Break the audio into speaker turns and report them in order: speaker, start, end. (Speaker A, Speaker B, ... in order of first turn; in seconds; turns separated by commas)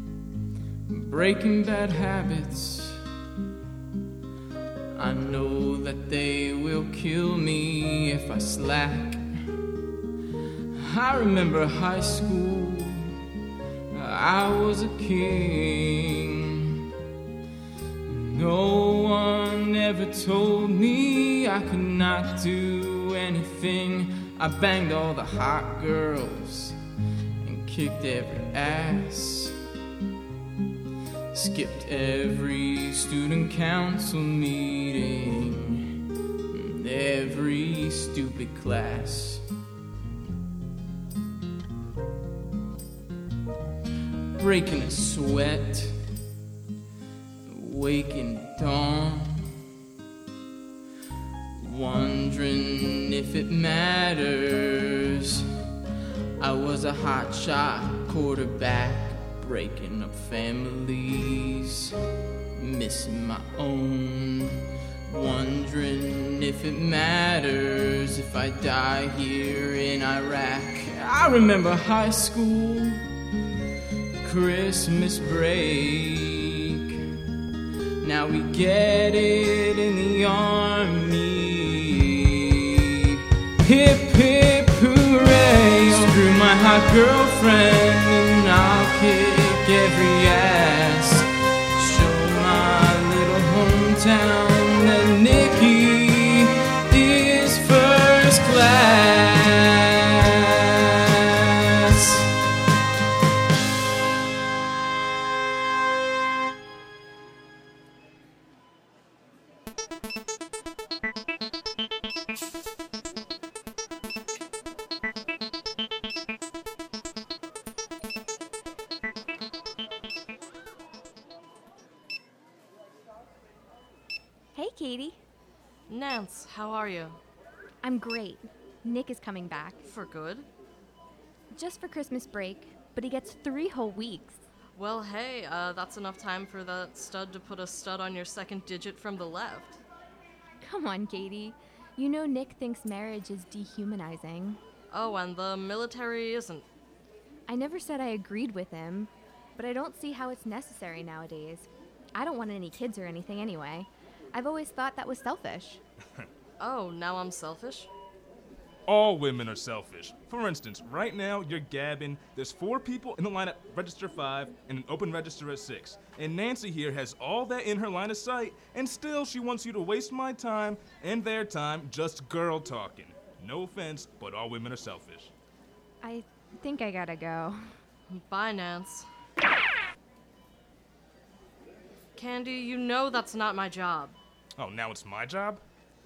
Speaker A: 0.9-3.0, Speaker A: 5.0-9.5, Speaker A: 10.8-13.1, Speaker A: 13.9-16.8, Speaker A: 18.1-26.8, Speaker A: 27.4-29.6, Speaker A: 31.3-35.9, Speaker A: 36.5-39.5, Speaker A: 44.4-46.1, Speaker A: 47.5-49.6, Speaker A: 51.6-55.5, Speaker A: 56.4-62.0, Speaker A: 62.5-73.1, Speaker A: 74.2-77.1, Speaker A: 78.0-82.5, Speaker A: 83.6-100.2, Speaker A: 101.8-102.2, Speaker B: 124.5-125.2, Speaker C: 125.9-127.2, Speaker B: 127.8-129.8, Speaker C: 129.8-130.5, Speaker B: 131.5-134.4, Speaker C: 134.8-139.8, Speaker B: 140.6-144.6, Speaker C: 144.9-146.7, Speaker B: 147.5-155.8, Speaker C: 156.6-157.9, Speaker D: 158.9-175.3, Speaker B: 176.0-177.7, Speaker C: 178.1-179.1, Speaker C: 182.2-184.2, Speaker D: 184.6-185.6